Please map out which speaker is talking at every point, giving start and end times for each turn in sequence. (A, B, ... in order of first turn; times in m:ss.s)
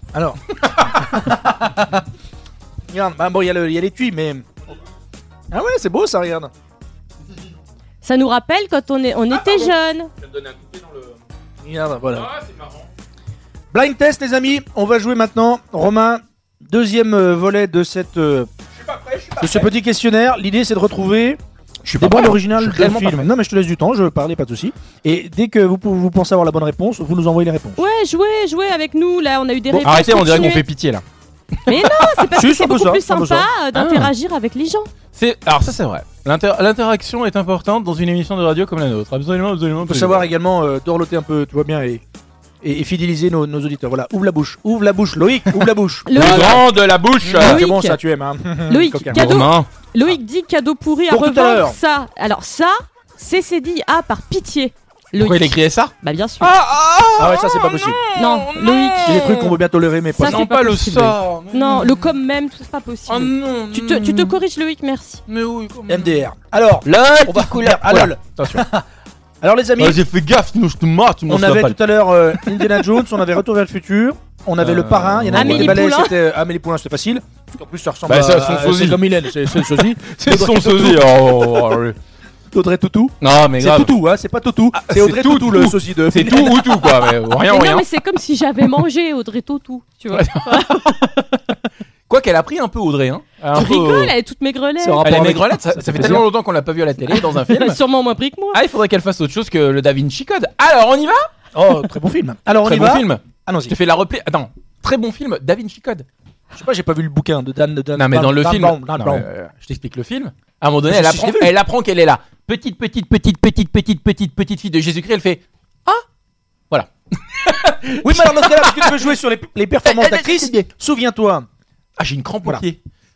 0:00.1-0:02.0 A
0:02.9-0:04.8 A
0:05.5-0:06.5 A
0:08.0-0:10.1 B
0:09.3-0:11.2 C
0:11.6-0:12.3 A
0:12.1-0:12.9 C
0:13.7-0:18.5 A
0:18.7-0:19.7 C
0:19.4-0:21.4 A
0:21.8-0:23.3 C
0:22.0-0:27.8 A
0:27.8-0:30.6 B
0:29.8-0:31.0 C
0:31.7-0:34.9 B
0:32.3-0:33.5 A
0:33.7-0:34.1 C
0:35.1-0:40.3 C
0:39.8-0:42.0 A
0:42.6-0:46.6 A
0:46.1-0:46.6 B
0:46.1-0:47.6 C
0:47.2-0:49.3 A
0:47.3-0:48.0 B
0:48.7-0:56.5 B
0:49.1-0:49.7 C
0:51.1-0:51.8 A
0:55.2-0:59.6 C
0:57.2-0:58.0 A
0:58.1-0:59.2 B
0:59.0-1:00.4 A
1:00.2-1:05.2 B
1:00.2-1:02.1 C
1:03.1-1:04.4 C
1:05.3-1:06.2 C
1:05.9-1:08.9 A
1:06.9-1:08.6 C
1:09.4-1:10.0 A
1:09.8-1:11.8 C
1:11.3-1:21.3 A
1:12.3-1:12.9 C
1:14.6-1:15.8 C
1:15.3-1:16.1 B
1:18.1-1:22.0 C
1:22.5-1:26.7 A
1:23.2-1:23.9 C
1:24.7-1:27.8 C
1:27.5-1:31.3 B
1:30.1-1:31.1 C
1:32.1-1:34.1 C
1:33.5-1:35.1 B
1:34.8-1:36.3 A
1:35.0-1:37.8 C
1:37.1-1:38.6 B
1:38.5-1:41.3 C
1:41.5-1:43.7 A
1:42.6-1:46.0 C
1:46.5-1:49.3 A
1:48.0-1:56.0 C
1:50.9-1:51.5 A
1:56.7-1:59.1 C
1:58.0-2:01.5 A
1:59.8-2:00.5 C
2:02.0-2:02.8 C